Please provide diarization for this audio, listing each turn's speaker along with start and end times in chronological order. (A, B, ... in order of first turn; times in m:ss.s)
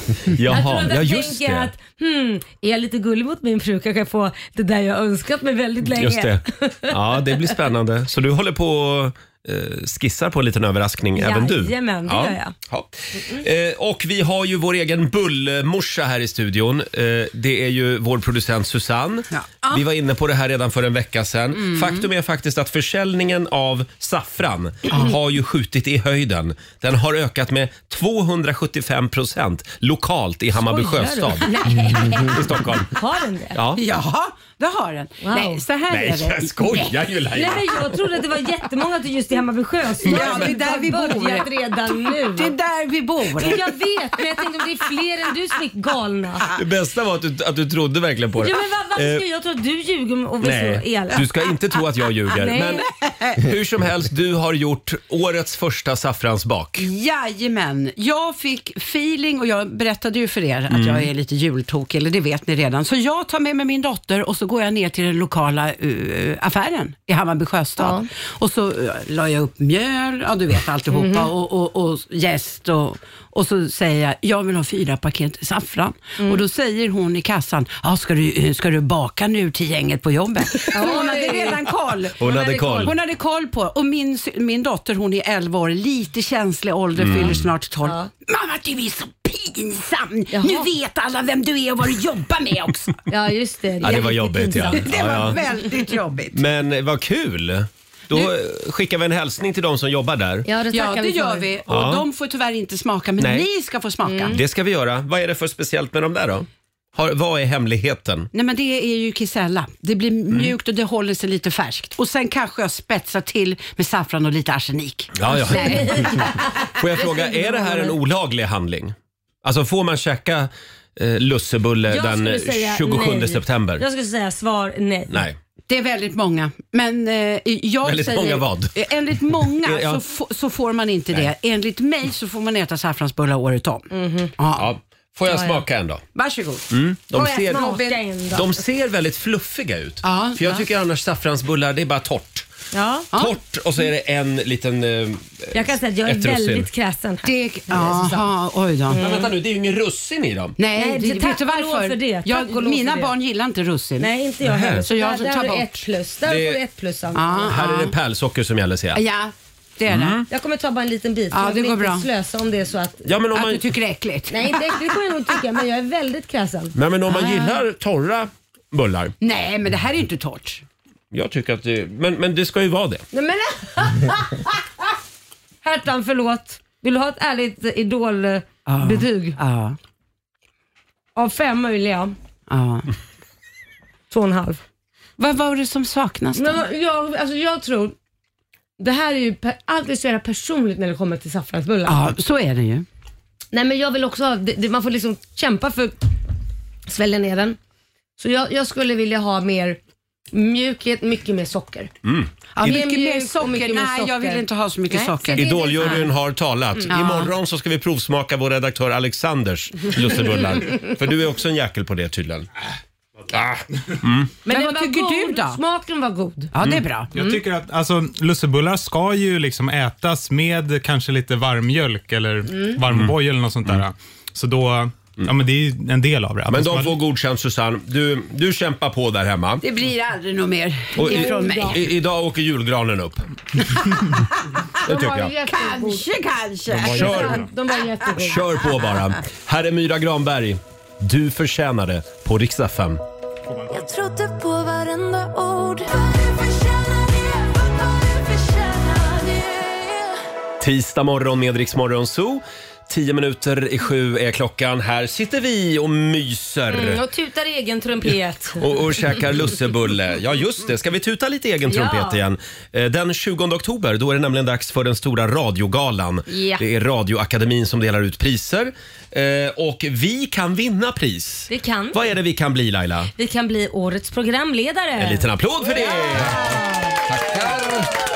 0:00.3-0:01.7 A
0:00.5-0:06.9 B
0:05.9-0:31.5 A
0:11.2-0:12.5 B
0:13.1-0:13.4 B
0:19.3-0:19.8 C
0:21.5-0:22.0 C
0:30.6-0:32.4 B
0:31.5-0:32.4 C
0:32.1-0:32.9 A
0:32.9-0:33.6 B
0:33.5-0:33.8 A
0:33.7-0:36.9 C
0:35.2-0:35.6 B
0:35.9-0:37.9 A
0:37.3-0:42.5 B
0:40.0-0:43.7 C
0:40.0-0:40.5 A
0:43.4-0:46.5 B
0:46.5-0:49.2 A
0:48.4-0:51.2 B
0:50.4-0:52.9 A
0:52.3-0:52.8 B
0:53.0-0:53.4 C
0:53.4-0:56.9 A
0:56.8-1:22.2 C
1:00.7-1:01.1 A
1:07.8-1:08.1 B
1:10.9-1:11.3 B
1:20.7-1:21.6 B
1:22.2-1:23.0 A
1:22.2-1:22.9 B
1:22.8-1:33.0 C
1:27.0-1:27.5 A
1:30.3-1:30.7 B
1:33.1-1:34.9 B
1:33.8-1:35.4 A
1:34.7-1:36.4 C
1:36.3-1:40.5 A
1:40.4-1:41.5 B
1:40.7-1:44.4 C
1:41.7-1:42.0 A
1:43.2-1:43.5 A
1:44.0-1:44.4 B
1:44.3-1:48.3 A
1:48.3-1:56.5 C
1:55.1-2:03.8 A
1:55.3-1:57.9 B
2:01.9-2:05.2 B
2:05.1-2:05.4 A
2:05.7-2:13.9 C
2:07.8-2:08.8 A
2:09.5-2:10.0 A
2:13.9-2:14.3 B
2:14.4-2:14.7 C
2:14.6-2:16.0 A
2:15.3-2:15.6 B
2:16.1-2:16.6 C
2:16.7-2:17.7 A
2:17.1-2:18.6 B
2:17.5-2:17.9 C
2:18.3-2:22.5 A
2:20.0-2:20.6 C
2:22.7-2:23.1 B
2:23.1-2:26.7 A
2:25.5-2:28.3 B
2:27.2-2:29.3 C
2:28.9-2:30.6 A
2:30.6-2:34.1 C
2:30.7-2:33.1 B
2:34.0-2:37.5 B
2:34.4-2:34.9 A
2:34.8-2:35.8 C
2:36.2-2:36.6 A
2:37.1-2:37.9 C
2:37.5-2:39.0 A
2:38.9-2:40.2 C
2:39.9-2:40.3 A
2:40.3-2:43.1 B
2:41.3-2:42.1 C
2:43.0-2:43.6 A
2:43.3-2:44.8 C
2:44.3-2:46.7 B
2:46.7-2:49.1 A
2:47.1-2:47.6 C
2:49.2-2:50.6 C
2:51.1-2:53.0 A
2:53.1-2:54.5 B
2:55.6-2:59.4 B
2:58.6-2:59.8 C
3:01.2-3:02.1 B
3:02.5-3:02.9 C
3:04.1-3:04.6 B
3:05.2-3:06.6 C
3:06.3-3:07.9 B
3:08.8-3:12.1 B
3:11.8-3:12.8 C
3:13.5-3:16.0 B
3:16.9-3:17.6 B
3:18.2-3:19.8 B
3:20.3-3:21.9 B
3:22.0-3:22.3 A
3:22.5-3:26.0 C
3:22.6-3:26.1 B
3:25.3-3:32.5 A
3:26.9-3:27.3 C
3:34.0-3:34.3 A
3:34.4-3:35.6 C
3:34.5-3:36.5 B
3:36.5-3:37.1 C
3:37.1-3:46.9 D
3:42.9-3:43.1 A
3:46.5-3:49.6 A
3:49.6-3:51.9 C
3:51.0-3:51.8 B
3:51.0-3:53.2 A
3:54.8-3:55.3 A
3:54.8-3:56.0 B
3:55.4-3:57.3 C
3:56.7-3:57.4 A
3:56.8-3:58.4 B
3:58.1-4:03.0 A
4:03.7-4:10.1 E
4:10.6-4:17.0 A
4:16.7-4:18.7 B
4:18.6-4:33.1 A
4:21.7-4:22.2 B
4:26.3-4:26.6 B
4:31.5-4:32.0 B
4:33.2-4:37.0 B
4:35.0-4:36.5 A
4:37.1-4:37.9 A